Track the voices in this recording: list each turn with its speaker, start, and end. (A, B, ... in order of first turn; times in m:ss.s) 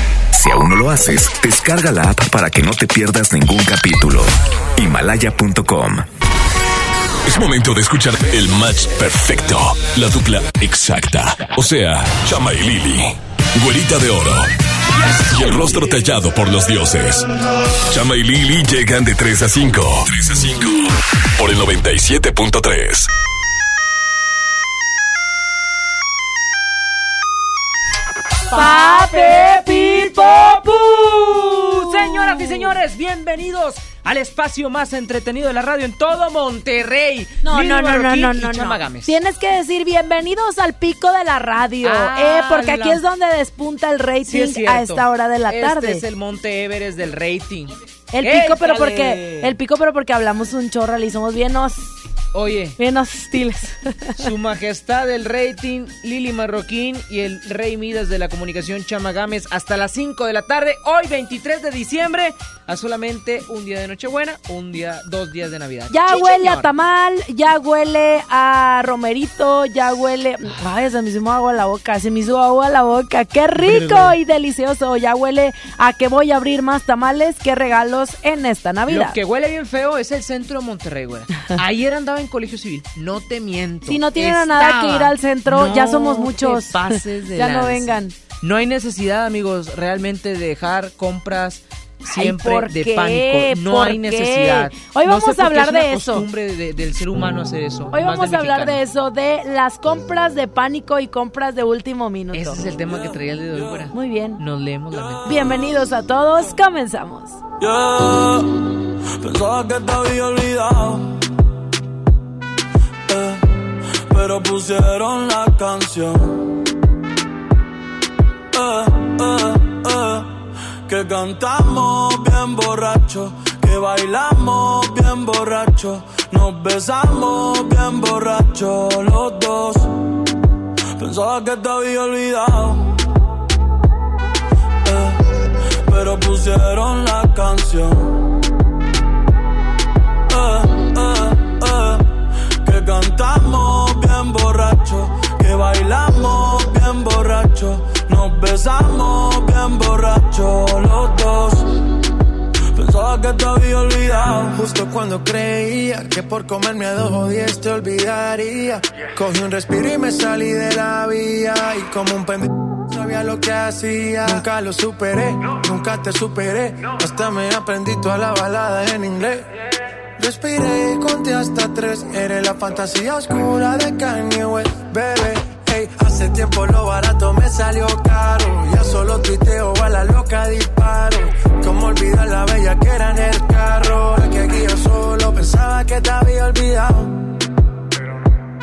0:00.3-0:06.0 A
0:07.2-0:14.5 B
0:15.2-0:17.3 B
0:17.9-0:23.1 B
0:28.5-0:39.2 C
0:28.5-0:32.7 D
0:37.4-0:46.0 D
0:41.8-0:43.0 C
0:44.2-0:49.5 C
0:48.1-0:52.0 D
0:52.3-0:52.8 C
0:52.8-0:54.3 D
0:54.2-1:06.7 C
1:05.9-1:19.2 D
1:13.6-1:14.1 C
1:18.9-1:38.8 C
1:23.8-1:28.1 D
1:32.1-1:36.2 D
1:37.9-1:42.7 D
1:42.3-1:45.7 C
1:43.1-1:43.8 E
1:43.9-1:44.4 D
1:45.2-1:47.4 D
1:47.6-1:48.5 E
1:49.2-1:51.1 E
1:53.1-1:53.4 E
1:54.1-1:56.4 E
1:58.5-2:00.3 E
2:00.9-2:09.9 E
2:11.0-2:12.8 E
2:14.8-2:15.2 E
2:15.9-2:18.1 E
2:20.3-2:22.0 E
2:22.6-2:31.6 E
2:32.8-2:34.6 E
2:34.5-2:49.4 F
2:50.2-3:07.1 F